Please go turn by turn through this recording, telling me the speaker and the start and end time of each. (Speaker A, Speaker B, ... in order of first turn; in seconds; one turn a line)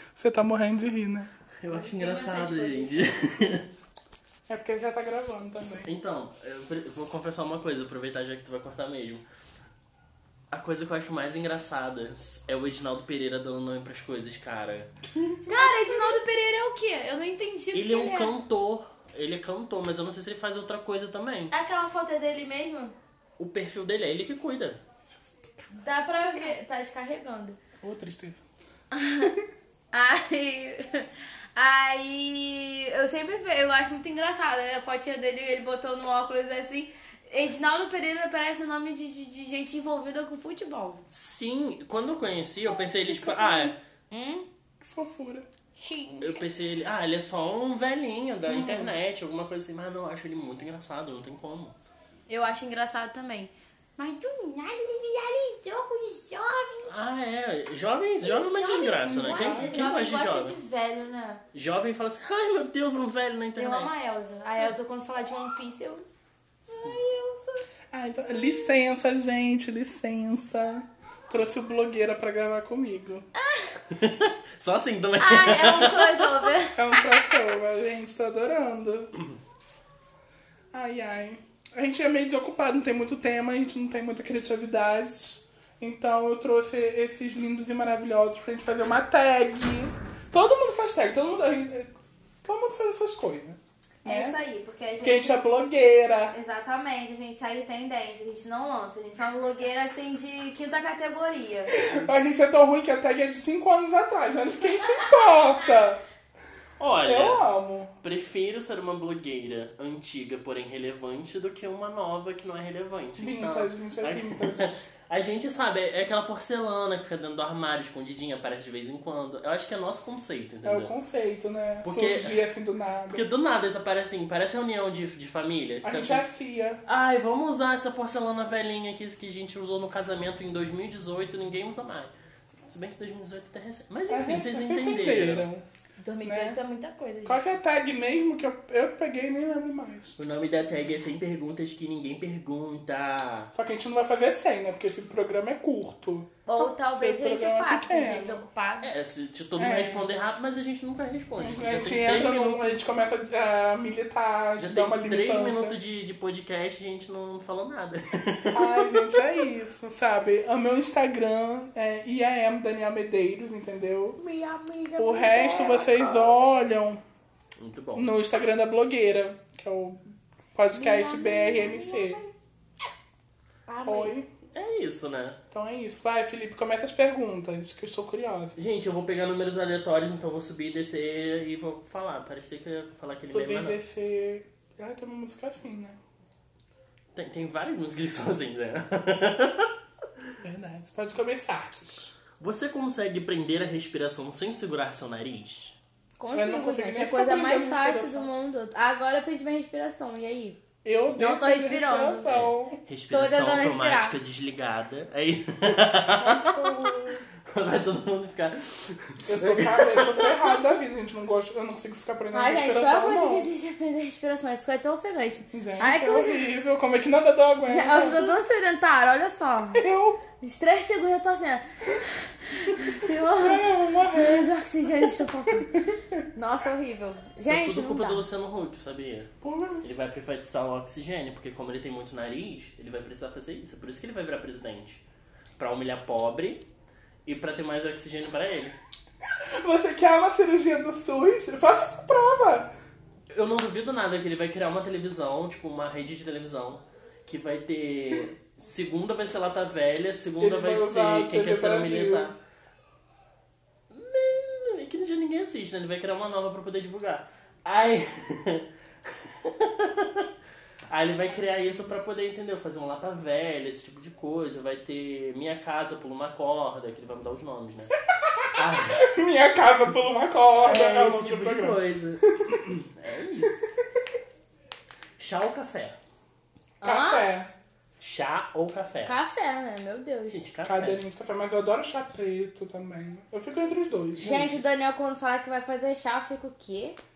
Speaker A: 0.1-1.3
Speaker B: 1.6-3.6
Speaker C: 1.7-3.7
Speaker A: 4.5-5.9
Speaker B: 5.6-9.2
Speaker B: 10.5-14.9
Speaker C: 15.4-18.3
Speaker B: 17.7-21.5
Speaker C: 21.5-22.9
Speaker B: 23.4-24.8
Speaker C: 25.7-27.6
Speaker A: 27.8-28.4
Speaker C: 28.9-29.3
Speaker C: 29.9-41.0
Speaker B: 41.1-43.8
Speaker C: 42.9-44.5
Speaker A: 44.8-45.5
Speaker C: 45.8-46.4
Speaker B: 46.2-51.7
Speaker A: 48.5-48.9
Speaker C: 52.3-57.0
Speaker B: 56.9-60.5
Speaker C: 58.2-61.4
Speaker A: 59.1-60.0
Speaker B: 61.5-63.9
Speaker C: 63.5-66.0
Speaker C: 66.7-67.7
Speaker B: 66.7-67.0
Speaker A: 67.9-73.2
Speaker C: 73.3-73.8
Speaker B: 73.9-76.5
Speaker C: 75.2-77.4
Speaker A: 76.8-79.1
Speaker A: 80.7-91.9
Speaker A: 92.4-94.4
Speaker C: 94.0-95.4
Speaker A: 95.0-96.3
Speaker C: 96.3-101.8
Speaker A: 101.7-106.0
Speaker C: 104.8-105.6
Speaker B: 106.8-107.5
Speaker A: 107.0-107.9
Speaker B: 108.0-120.9
Speaker A: 113.2-114.9
Speaker A: 120.6-123.2
Speaker B: 121.8-122.4
Speaker B: 123.1-126.2
Speaker A: 125.8-126.8
Speaker B: 126.8-132.1
Speaker B: 132.7-135.5
Speaker A: 134.1-135.6
Speaker C: 136.0-137.4
Speaker A: 136.2-136.6
Speaker A: 137.2-140.2
Speaker B: 140.2-143.5
Speaker A: 143.5-148.4
Speaker C: 146.4-148.9
Speaker B: 148.8-152.6
Speaker A: 149.6-150.1
Speaker A: 151.4-155.8
Speaker B: 154.6-159.2
Speaker A: 158.5-164.2
Speaker C: 164.2-166.3
Speaker A: 165.0-167.0
Speaker B: 167.6-168.1
Speaker A: 167.9-170.0
Speaker A: 170.5-172.2
Speaker C: 170.7-172.3
Speaker C: 173.7-174.1
Speaker A: 173.8-174.3
Speaker B: 174.5-175.4
Speaker A: 175.5-178.5
Speaker B: 178.6-183.8
Speaker A: 183.3-186.0
Speaker B: 187.1-189.7
Speaker A: 190.4-192.2
Speaker B: 192.4-195.8
Speaker C: 196.2-200.6
Speaker A: 196.3-198.3
Speaker A: 200.8-202.8
Speaker C: 201.1-202.2
Speaker B: 202.2-210.4
Speaker C: 203.1-204.2
Speaker A: 206.2-207.2
Speaker A: 209.3-213.5
Speaker C: 212.3-216.5
Speaker A: 215.5-218.3
Speaker C: 217.7-219.8
Speaker A: 219.8-220.2
Speaker C: 220.4-225.7
Speaker A: 222.8-226.2
Speaker C: 226.3-228.2
Speaker B: 227.4-229.3
Speaker A: 229.4-229.9
Speaker B: 229.8-235.0
Speaker B: 235.6-236.6
Speaker B: 237.2-238.7
Speaker A: 239.6-242.7
Speaker B: 243.3-252.3
Speaker A: 250.4-252.3
Speaker B: 253.9-260.3
Speaker B: 260.9-267.9
Speaker A: 261.5-261.9
Speaker A: 268.1-272.8
Speaker B: 268.5-269.0
Speaker B: 270.6-273.6
Speaker B: 275.2-276.0
Speaker C: 276.8-277.3
Speaker A: 276.8-277.5
Speaker B: 278.0-279.1
Speaker C: 279.0-280.4
Speaker B: 280.3-281.0
Speaker A: 280.6-284.5
Speaker B: 284.2-284.6
Speaker C: 284.2-287.0